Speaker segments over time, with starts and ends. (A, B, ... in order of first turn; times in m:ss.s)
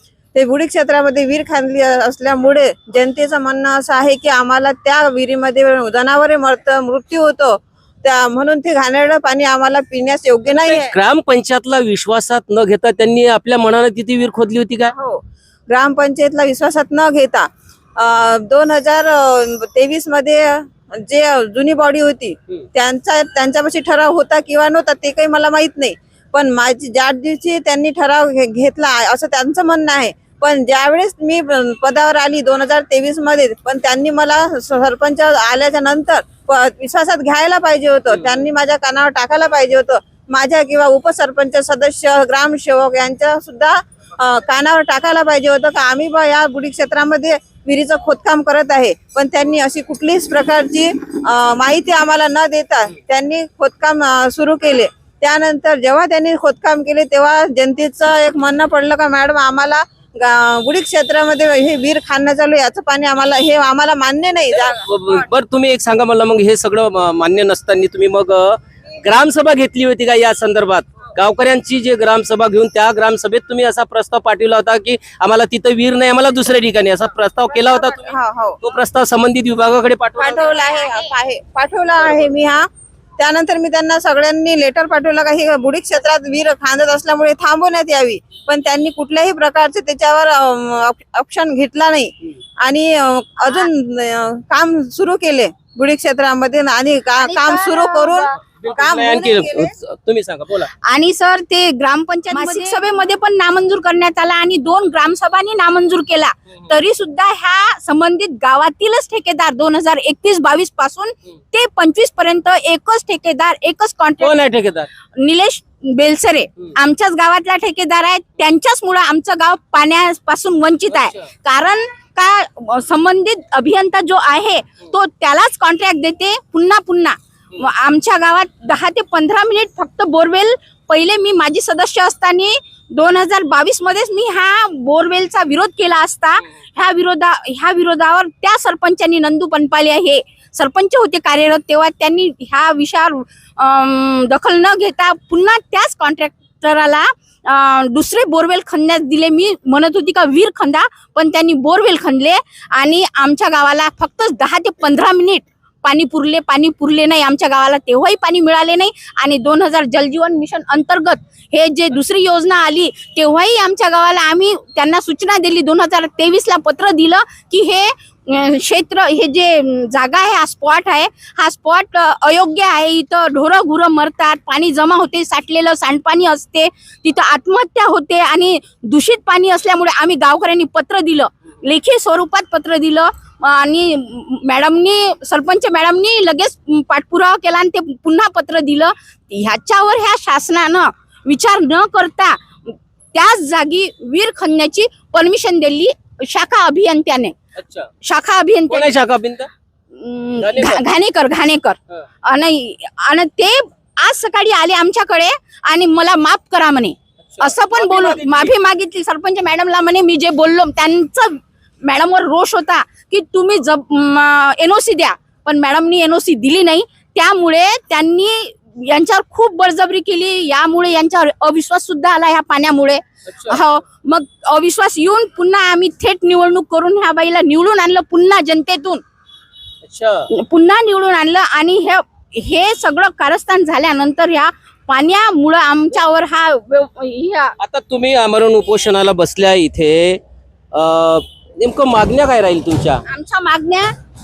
0:00.3-0:10.9 A
0:10.5-0:14.9 B
0:14.9-1:04.8 A
0:38.1-0:38.4 B
1:04.5-1:20.5 B
1:17.7-1:18.6 A
1:20.2-1:39.7 A
1:37.2-1:38.3 C
1:38.6-1:40.7 B
1:40.9-1:54.4 C
1:42.3-1:42.7 A
1:54.2-1:54.9 B
1:55.2-3:17.4 C
2:00.9-2:01.2 B
3:17.6-3:17.9 B
3:18.0-3:18.9 C
3:18.7-3:19.5 B
3:19.9-3:49.0 C
3:20.4-3:20.8 B
3:27.2-3:28.5 B
3:43.3-3:43.6 B
3:49.8-3:50.3 B
3:50.3-3:57.6 C
3:57.6-4:00.2 B
4:00.7-4:03.0 B
4:03.1-4:03.9 C